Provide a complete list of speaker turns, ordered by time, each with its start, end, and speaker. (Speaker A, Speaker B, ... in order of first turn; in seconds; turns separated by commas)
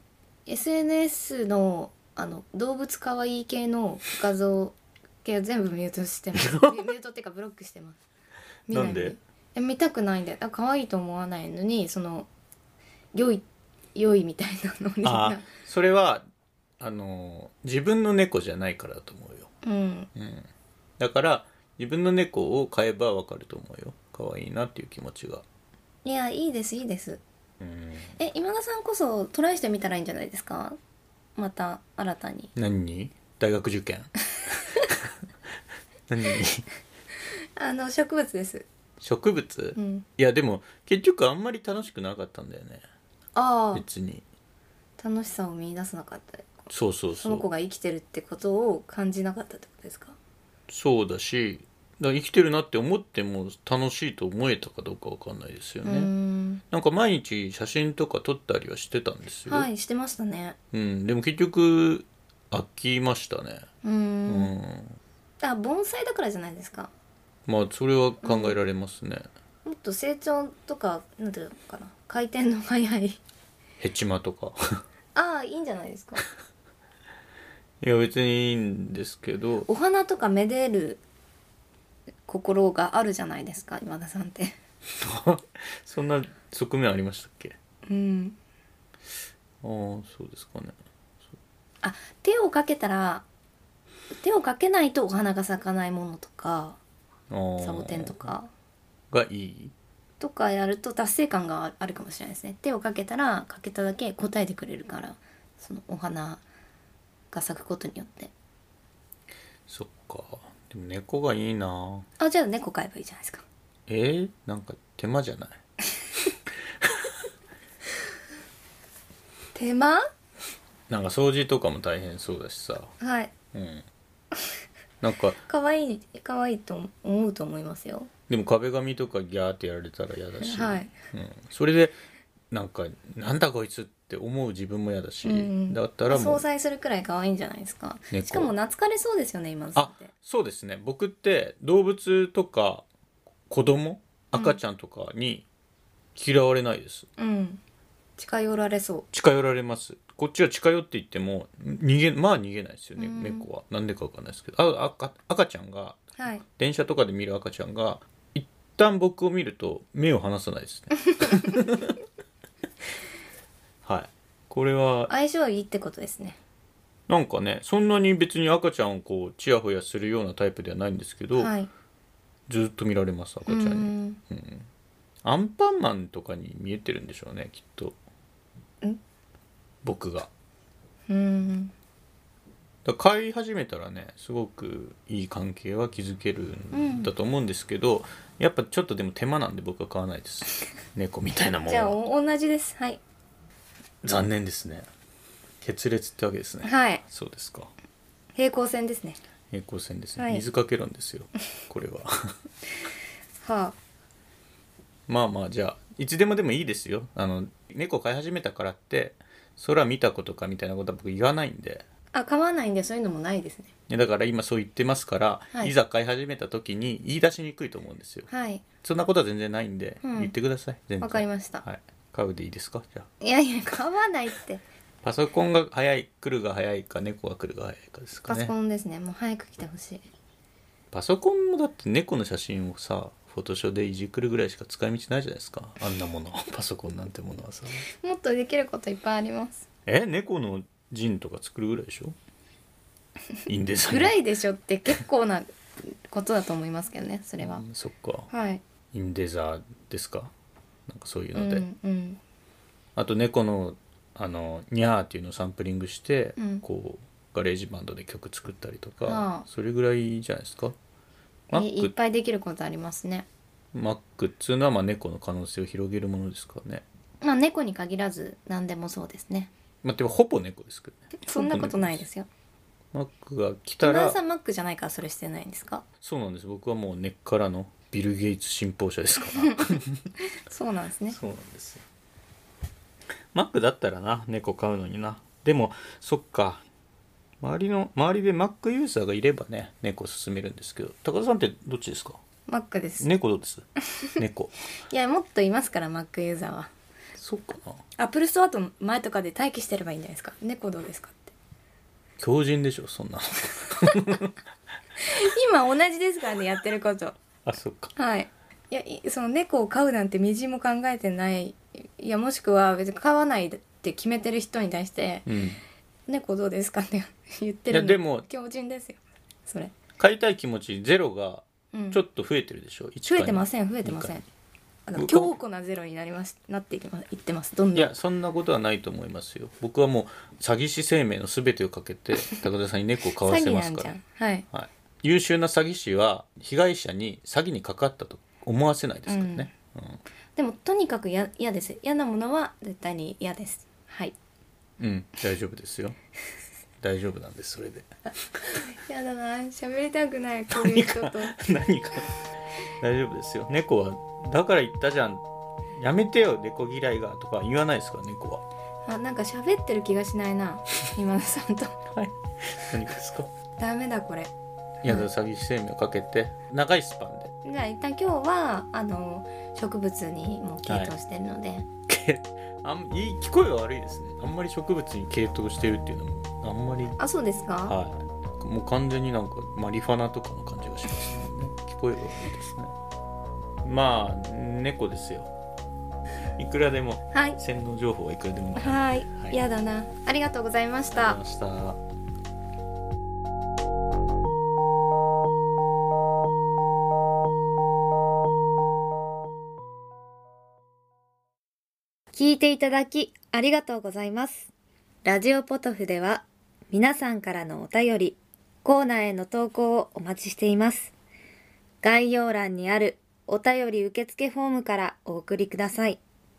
Speaker A: 0.5-8.0, Speaker B: 6.4-6.8, Speaker A: 8.7-12.3, Speaker B: 8.7-9.2, Speaker A: 13.1-15.5, Speaker B: 15.0-16.2, Speaker B: 16.8-19.5, Speaker A: 19.6-20.1, Speaker B: 20.1-20.5, Speaker B: 21.0-25.4, Speaker A: 26.0-27.2, Speaker B: 27.6-28.1, Speaker A: 28.2-30.8, Speaker A: 31.4-32.5, Speaker B: 32.5-34.1, Speaker A: 34.6-34.9, Speaker B: 34.7-35.1, Speaker B: 36.1-36.7, Speaker A: 37.5-38.6, Speaker B: 39.0-42.8, Speaker A: 39.8-40.0, Speaker A: 43.3-43.8, Speaker B: 43.7-44.2, Speaker A: 45.0-50.1, Speaker B: 46.7-47.4, Speaker B: 50.7-56.1, Speaker A: 55.8-56.6, Speaker B: 56.7-59.7, Speaker A: 59.5-60.5, Speaker B: 60.7-63.7, Speaker A: 63.8-64.5, Speaker B: 64.3-65.0, Speaker A: 65.4-66.9, Speaker B: 67.5-69.3, Speaker A: 68.2-68.6, Speaker A: 69.6-73.2, Speaker B: 73.8-74.8, Speaker A: 75.1-76.2, Speaker B: 77.8-79.7, Speaker A: 79.7-81.0, Speaker A: 82.3-84.5, Speaker B: 85.0-87.5, Speaker A: 87.9-88.4, Speaker B: 89.6-90.8, Speaker A: 91.8-93.2, Speaker A: 94.1-96.8, Speaker B: 97.3-98.3, Speaker A: 97.6-98.5, Speaker B: 99.1-99.7, Speaker A: 100.2-106.4, Speaker A: 107.3-108.3, Speaker B: 109.7-112.1, Speaker A: 112.2-113.4, Speaker B: 113.9-115.6, Speaker B: 116.8-117.1, Speaker A: 119.5-120.0, Speaker B: 120.9-122.9, Speaker A: 123.0-123.3, Speaker B: 123.5-123.8, Speaker B: 125.0-125.4, Speaker A: 125.5-128.1, Speaker B: 128.3-132.0, Speaker A: 130.4-130.9, Speaker B: 132.5-136.4, Speaker A: 135.2-140.1, Speaker B: 138.1-138.5, Speaker B: 139.8-142.8, Speaker B: 143.5-145.4, Speaker B: 146.1-147.1, Speaker A: 147.2-147.6, Speaker A: 148.2-149.1, Speaker B: 149.1-161.9, Speaker A: 153.0-153.4, Speaker A: 156.2-156.4, Speaker A: 161.2-161.6, Speaker B: 163.8-165.1, Speaker A: 165.1-166.4, Speaker B: 167.1-171.5, Speaker A: 171.3-171.7, Speaker B: 172.5-174.7, Speaker A: 173.4-174.2, Speaker B: 175.2-178.0, Speaker B: 179.8-180.3, Speaker A: 181.1-181.7, Speaker B: 182.8-192.0, Speaker A: 186.7-187.1, Speaker A: 191.7-193.0, Speaker B: 194.0-194.9, Speaker B: 195.6-197.7, Speaker A: 196.6-197.0, Speaker A: 198.3-199.2, Speaker B: 199.5-202.3, Speaker A: 200.2-200.4, Speaker A: 203.4-203.8, Speaker B: 205.1-211.8, Speaker A: 212.1-213.7, Speaker B: 213.9-218.3, Speaker A: 218.3-218.6, Speaker B: 218.8-223.1, Speaker A: 220.0-220.3, Speaker A: 221.0-221.6, Speaker A: 223.2-224.6, Speaker B: 225.0-228.5, Speaker A: 228.3-230.0, Speaker B: 230.9-237.8, Speaker A: 237.9-239.7, Speaker B: 239.8-242.2, Speaker B: 243.5-244.1, Speaker A: 243.9-247.6, Speaker B: 247.4-248.3, Speaker A: 248.3-248.6, Speaker B: 248.9-250.3, Speaker B: 250.9-251.7, Speaker A: 251.3-252.2, Speaker B: 252.9-260.8, Speaker A: 256.4-256.6, Speaker A: 259.0-259.4, Speaker B: 261.5-261.9, Speaker A: 261.5-263.3, Speaker B: 263.7-266.8, Speaker A: 267.2-269.5, Speaker B: 269.8-272.0, Speaker A: 271.2-272.3, Speaker B: 272.9-274.2, Speaker A: 273.8-275.8, Speaker B: 276.0-280.1, Speaker A: 279.3-281.2, Speaker B: 281.1-281.8, Speaker B: 283.3-286.6, Speaker B: 287.4-292.2, Speaker A: 292.5-293.1, Speaker B: 293.0-293.6, Speaker B: 294.2-294.5, Speaker A: 294.9-296.7, Speaker B: 297.2-297.8, Speaker A: 298.0-301.3, Speaker B: 302.2-304.3, Speaker A: 305.0-307.2, Speaker B: 307.4-307.9, Speaker A: 307.9-315.3, Speaker B: 315.2-315.6, Speaker A: 316.1-319.7, Speaker B: 317.7-318.3, Speaker B: 320.0-324.2, Speaker A: 321.7-322.0, Speaker A: 323.1-324.2, Speaker A: 324.9-327.9, Speaker B: 324.9-325.3, Speaker B: 327.7-333.9, Speaker A: 333.2-334.4, Speaker B: 334.5-340.0, Speaker A: 339.1-339.5, Speaker A: 340.4-344.1, Speaker B: 344.8-346.0, Speaker B: 346.8-347.9, Speaker A: 348.5-351.4, Speaker B: 350.5-352.1, Speaker B: 352.8-358.4, Speaker A: 358.9-361.8, Speaker B: 361.9-363.3, Speaker A: 363.6-364.3, Speaker B: 364.8-367.3, Speaker A: 367.4-371.7, Speaker B: 370.7-370.9, Speaker B: 371.9-377.0, Speaker A: 377.0-377.8, Speaker B: 377.6-382.7, Speaker B: 383.6-385.3, Speaker B: 386.4-389.4, Speaker A: 387.1-387.4, Speaker A: 388.6-391.2, Speaker B: 390.9-391.8, Speaker A: 402.1-404.5, Speaker A: 405.0-410.9, Speaker A: 411.8-416.0